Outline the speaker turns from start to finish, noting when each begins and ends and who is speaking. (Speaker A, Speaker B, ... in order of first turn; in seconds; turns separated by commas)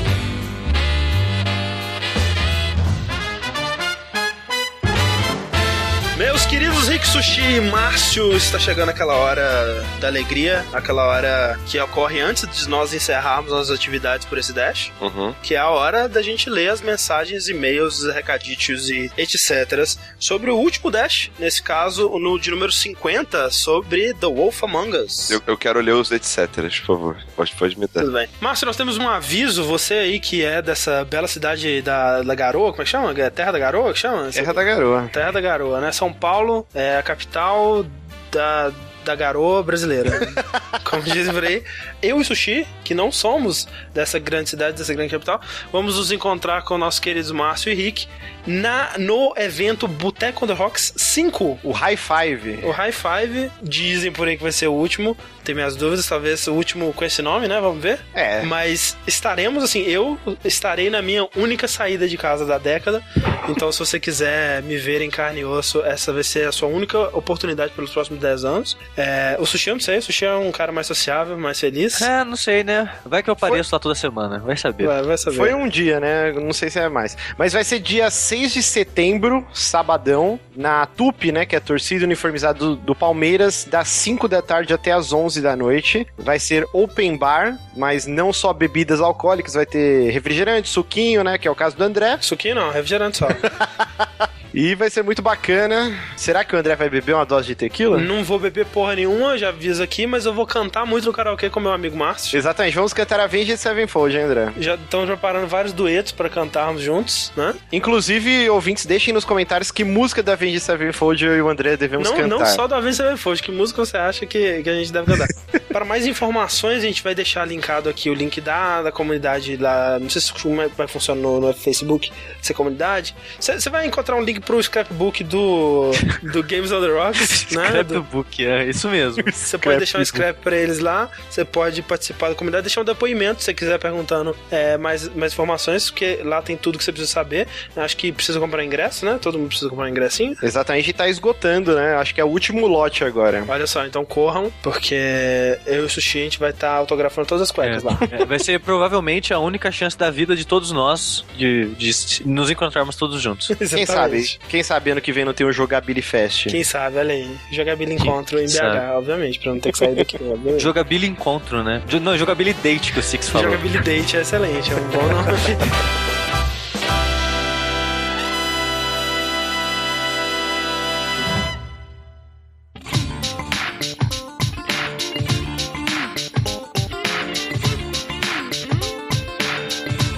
Speaker A: 6.1-25.4, Speaker B: 15.0-15.4, Speaker B: 25.3-28.1, Speaker A: 28.0-34.6, Speaker C: 34.3-35.1, Speaker A: 35.1-51.6, Speaker C: 40.2-40.8, Speaker C: 51.6-52.7, Speaker A: 52.6-72.1, Speaker C: 58.1-58.5, Speaker D: 72.0-75.0, Speaker A: 74.8-75.5, Speaker C: 75.3-92.2, Speaker A: 92.2-93.5, Speaker C: 93.4-98.1, Speaker A: 97.9-102.4, Speaker C: 102.3-104.5, Speaker A: 104.5-107.6, Speaker C: 107.7-112.6, Speaker A: 112.0-128.0, Speaker D: 127.2-129.3, Speaker C: 129.2-130.2, Speaker A: 129.4-140.4, Speaker C: 140.4-143.5, Speaker A: 143.5-148.1, Speaker D: 147.6-153.5, Speaker A: 153.5-154.3, Speaker C: 153.7-156.6, Speaker A: 156.5-160.7, Speaker D: 158.0-158.8, Speaker D: 160.6-163.7, Speaker A: 163.3-165.7